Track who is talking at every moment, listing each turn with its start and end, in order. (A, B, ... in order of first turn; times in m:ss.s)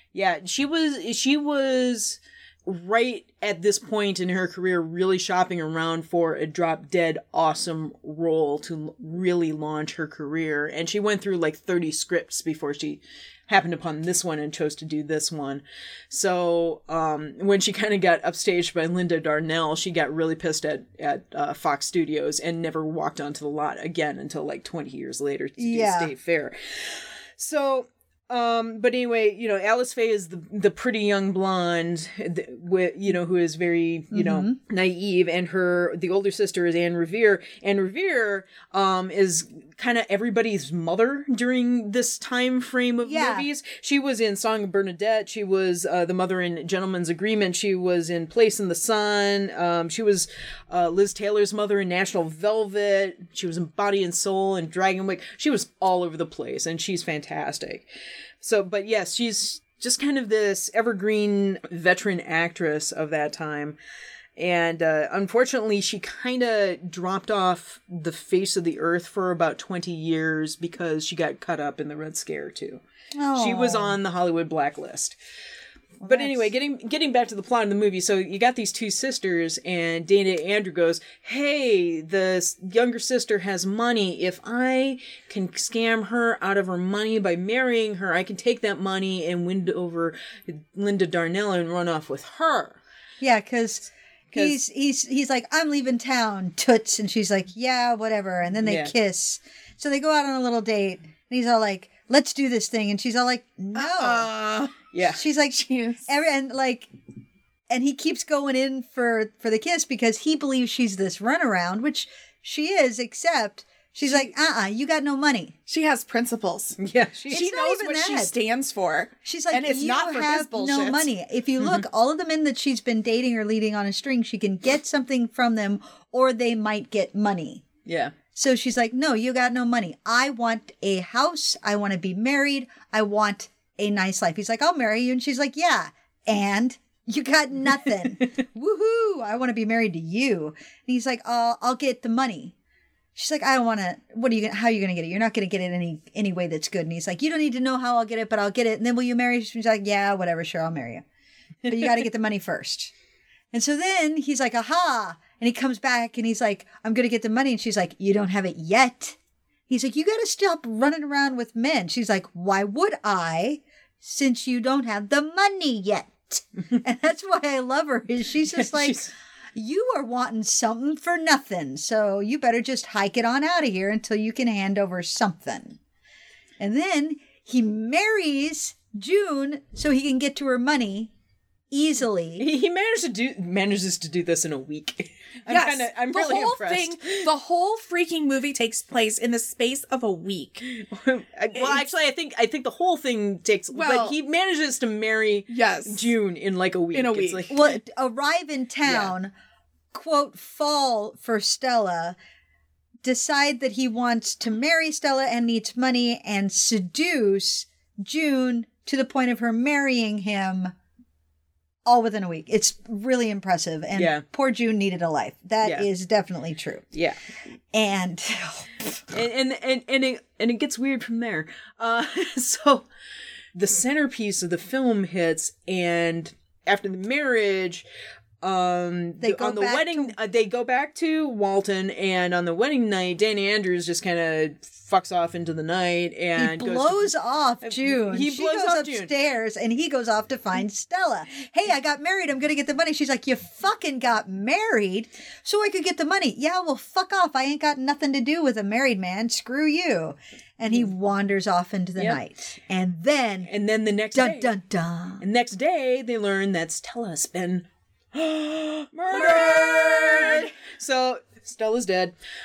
0:00.1-0:57.9 A
0:25.6-0:26.1 B
0:34.1-0:34.6 B
0:43.0-0:43.5 B
0:58.4-1:03.8 A
1:04.4-1:12.8 A
1:13.1-1:14.0 B
1:13.4-1:15.2 A
1:16.0-1:16.5 B
1:16.0-1:32.8 A
1:33.2-1:44.3 B
1:34.3-1:34.6 A
1:38.6-1:38.9 A
1:43.7-1:44.8 C
1:44.9-1:45.2 A
1:45.1-1:46.9 B
1:45.5-1:46.1 C
1:47.7-1:55.5 B
1:55.7-1:56.8 C
1:56.8-1:57.4 A
1:57.3-1:58.3 B
1:57.3-2:01.1 C
1:59.2-2:07.6 B
2:01.6-2:01.8 A
2:07.8-2:08.1 A
2:08.3-2:22.5 B
2:23.2-2:31.0 B
2:31.6-2:31.9 A
2:31.7-2:32.9 B
2:33.5-2:39.2 B
2:39.7-2:49.0 B
2:48.5-2:49.1 A
2:49.6-2:55.8 B
2:56.6-3:01.1 B
3:01.7-3:02.4 B
3:02.4-3:07.3 A
3:05.5-3:10.7 C
3:10.7-3:17.6 A
3:11.5-3:11.8 C
3:13.7-3:14.1 C
3:15.5-3:16.1 C
3:16.9-3:17.5 C
3:17.5-3:19.3 B
3:18.8-3:19.1 A
3:19.9-3:22.2 B
3:23.0-3:30.7 B
3:31.8-3:36.9 B
3:34.0-3:34.2 A
3:35.6-3:35.9 A
3:36.9-3:37.2 A
3:37.7-3:39.0 B
3:39.1-3:42.8 A
3:43.5-3:47.8 A
3:48.4-3:57.1 A
3:49.2-3:50.1 B
3:56.4-4:13.5 B
3:57.6-3:59.1 A
4:13.4-4:14.5 A
4:14.1-4:15.2 B
4:15.2-4:22.1 A
4:19.1-4:20.4 B